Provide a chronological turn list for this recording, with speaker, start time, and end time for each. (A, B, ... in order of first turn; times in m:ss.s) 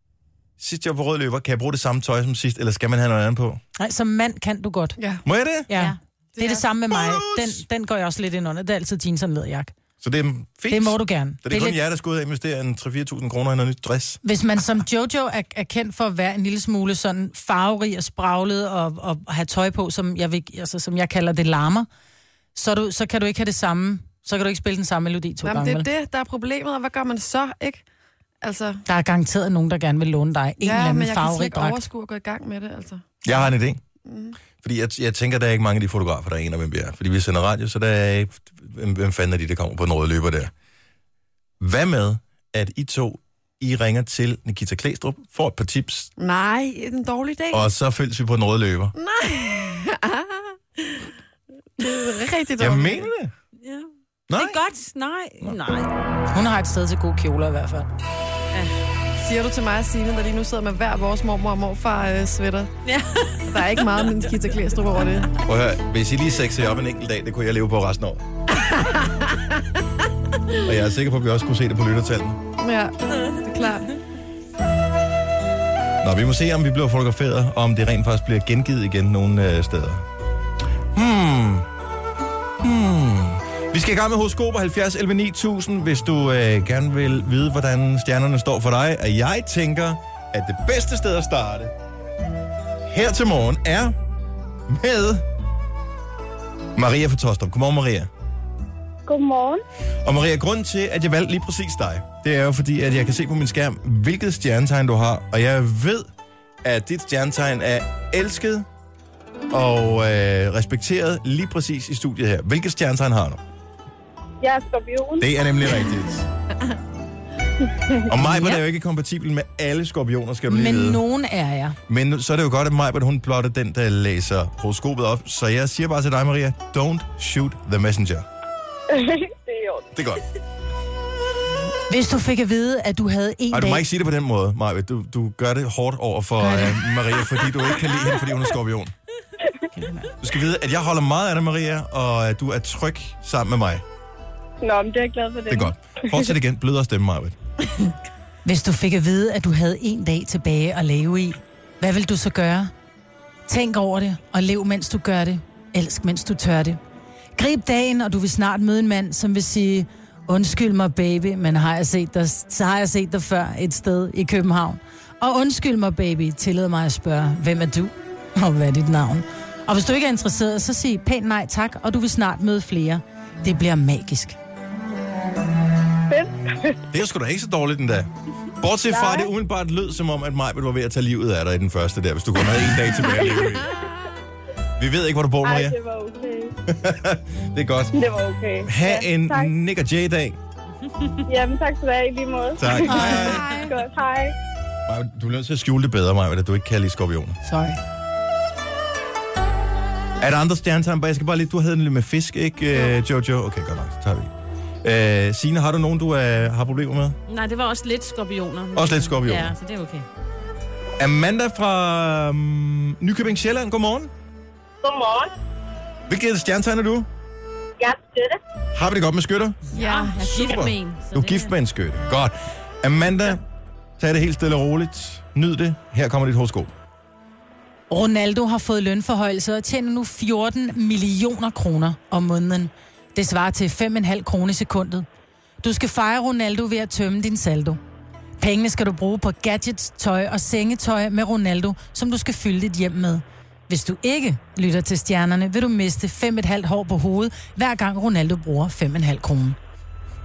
0:00.6-0:03.6 A
0:03.8-0:05.0 B
0:05.0-0:05.2 C
0:05.2-0:05.7 A
0:05.7-0:09.7 B
0:05.7-0:06.0 D
0:06.3-0:06.7 C
0:06.9-0:07.6 A
0:10.0-0:14.2 A
0:10.7-0:11.8 B
0:14.2-0:21.9 B
0:22.5-0:25.9 B
0:25.4-0:27.8 C
0:28.4-0:28.8 C
0:28.9-0:31.8 B
0:30.6-0:33.4 C
0:33.2-0:33.8 A
0:34.0-0:34.4 C
0:34.6-0:40.5 A
0:41.6-0:46.1 A
0:46.2-0:47.7 C
0:47.5-0:48.9 A
0:49.0-0:51.1 C
0:51.8-0:53.1 C
0:52.6-0:53.3 A
0:53.6-0:55.9 D
0:54.3-0:54.6 A
0:56.3-0:57.9 B
0:58.5-0:58.8 D
0:59.2-1:02.7 C
1:02.8-1:03.7 D
1:03.4-1:05.3 C
1:05.4-1:08.2 A
1:08.6-1:09.6 C
1:10.6-1:12.4 A
1:12.6-1:13.9 C
1:16.0-1:20.0 A
1:20.9-1:21.7 A
1:22.6-1:31.7 A
1:32.9-1:33.9 A
1:34.7-1:35.2 A
1:36.8-1:38.1 A
1:39.1-1:39.6 E
1:40.0-1:46.1 A
1:46.6-1:48.7 A
1:49.5-1:53.4 A
1:54.4-1:55.3 E
1:55.2-1:56.3 A
1:58.0-2:01.0 A
1:58.2-1:58.6 B
2:00.5-2:01.8 B
2:01.9-2:08.3 A
2:08.9-2:09.8 E
2:09.9-2:10.2 A
2:11.9-2:13.8 B
2:13.5-2:18.9 A
2:16.4-2:17.2 B
2:19.7-2:20.1 B
2:20.2-2:23.8 A
2:24.6-2:26.3 E
2:25.5-2:27.4 A
2:28.4-2:32.7 B
2:33.5-2:36.8 B
2:37.4-2:54.4 B
2:56.1-2:56.7 E
2:56.9-3:03.7 A
2:59.0-2:59.3 E
3:04.8-3:05.8 A
3:05.4-3:06.5 E
3:06.7-3:08.0 A
3:07.9-3:09.5 E
3:08.6-3:10.4 A
3:11.3-3:12.9 E
3:12.6-3:13.5 A
3:12.8-3:13.5 B
3:12.9-3:13.8 C
3:13.7-3:14.3 E
3:14.9-3:17.4 A
3:17.4-3:17.8 B
3:20.2-3:24.3 A
3:24.8-3:27.2 A
3:27.3-3:30.1 D
3:28.7-3:29.5 A
3:31.0-3:34.1 A
3:34.8-3:35.3 E
3:36.1-3:37.1 A
3:37.8-3:38.4 E
3:38.7-3:39.6 A
3:39.7-3:40.3 C
3:39.7-3:41.5 D
3:40.2-3:43.4 A
3:44.0-3:46.7 A
3:47.9-3:55.0 B
3:55.6-3:57.8 B
3:58.4-4:09.6 B